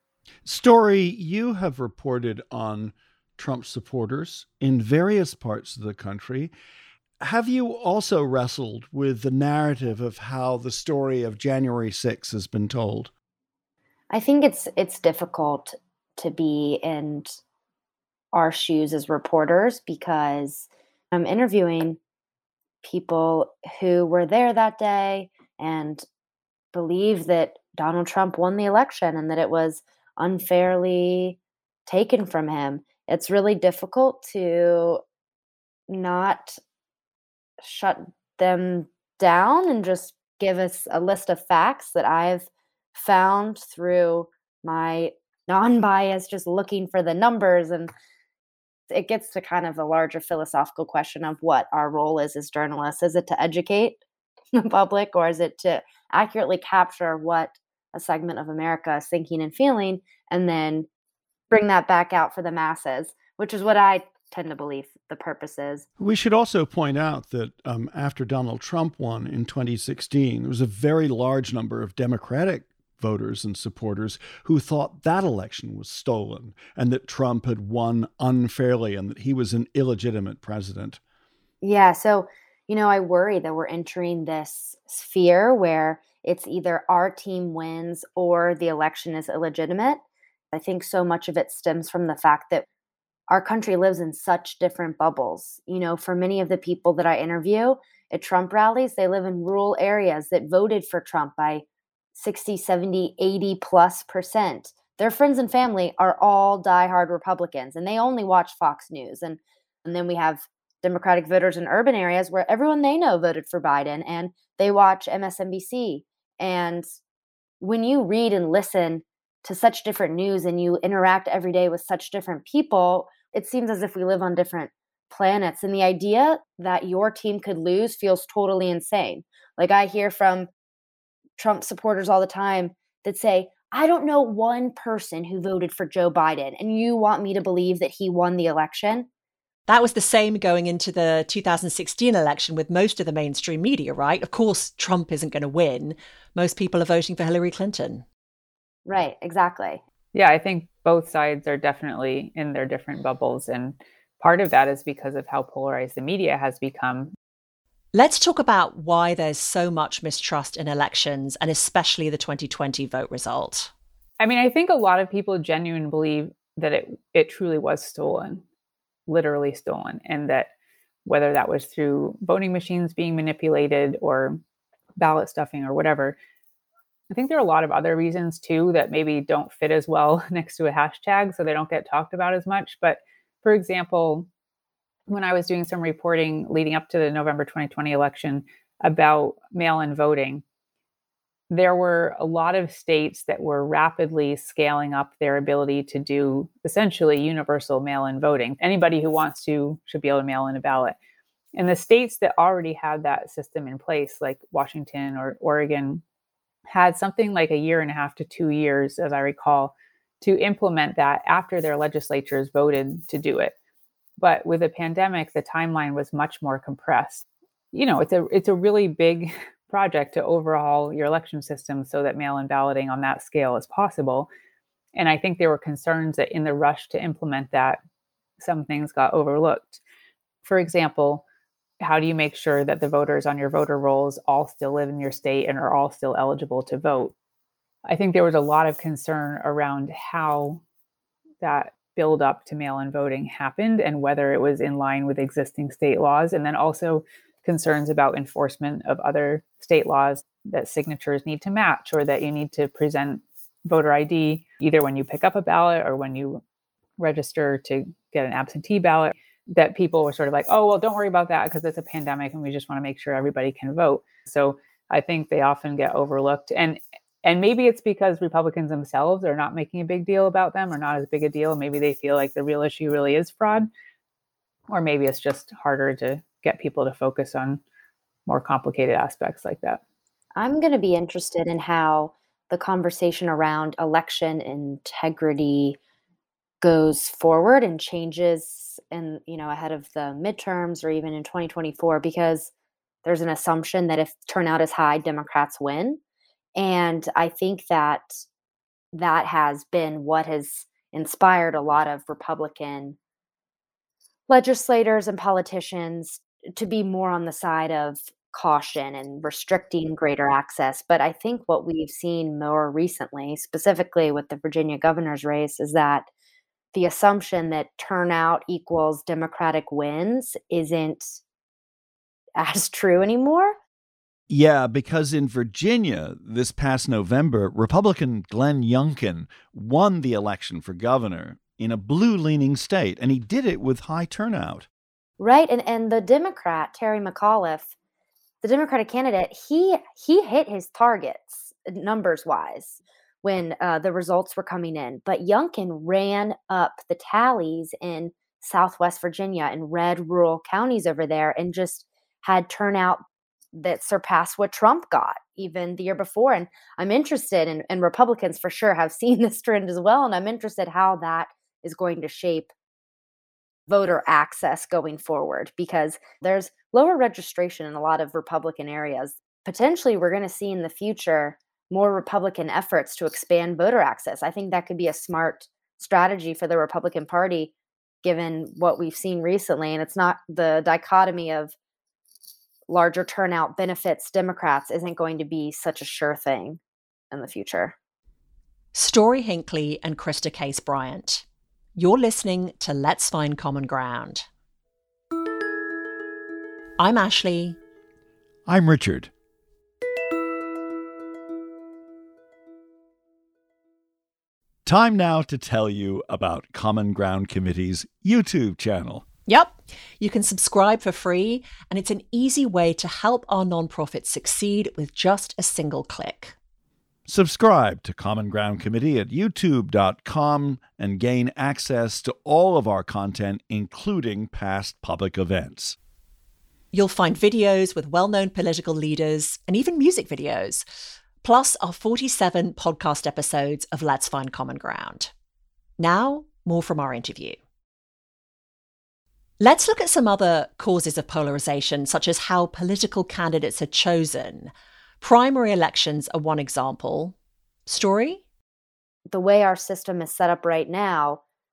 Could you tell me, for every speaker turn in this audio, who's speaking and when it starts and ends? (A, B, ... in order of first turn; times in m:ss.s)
0:00.4-0:06.5 A
0:07.2-0:13.1 A
0:14.1-0:17.4 B
0:18.3-0:22.0 B
0:22.8-0:26.0 B
0:26.7-0:35.0 B
0:35.9-0:36.6 B
0:37.6-0:47.9 B
0:48.9-0:54.0 B
0:54.5-1:00.9 B
1:01.5-1:05.8 B
1:06.0-1:21.0 A
1:21.6-1:32.6 B
1:33.3-1:56.8 B
1:57.6-2:10.5 B
2:11.4-2:19.1 B
2:19.7-2:28.0 C
2:28.8-2:29.8 B
2:30.1-2:37.1 D
2:37.9-2:43.7 C
2:44.2-2:48.4 D
2:49.1-2:50.5 D
2:51.0-2:54.4 D
2:55.0-2:56.2 D
2:57.1-3:04.3 D
3:05.1-3:10.4 D
3:11.5-3:21.0 D
3:21.5-3:26.0 D
3:26.7-3:33.5 D
3:34.2-3:44.3 D
3:44.9-3:47.8 D
3:48.4-3:49.8 D
3:50.4-3:51.2 D
3:51.8-3:57.1 D
3:57.8-4:00.6 D
4:01.4-4:16.4 D
4:17.0-4:33.7 D
4:34.7-4:37.6 D
4:38.2-4:39.8 D
4:40.4-4:45.8 B
4:46.6-4:52.5 B
4:53.0-4:56.0 B
4:56.6-4:58.2 B
4:58.9-5:03.0 B
5:04.3-5:16.1 B
5:16.7-5:21.2 B
5:22.4-5:23.6 B
5:24.3-5:34.7 A
5:35.2-5:37.7 B
5:38.4-5:53.0 B
5:53.5-6:02.5 B
6:03.7-6:21.5 B
6:22.7-6:26.6 B
6:27.1-6:27.7 B
6:28.7-6:31.2 C
6:31.7-6:34.3 C
6:36.8-6:37.6 C
6:38.4-6:39.1 A
6:44.6-6:49.0 A
6:49.3-6:56.3 C
6:57.1-7:05.8 A
7:06.7-7:10.6 C
7:11.2-7:15.1 C
7:15.8-7:17.4 C
7:19.4-7:27.1 C
7:27.6-7:28.2 C
7:29.1-7:31.2 B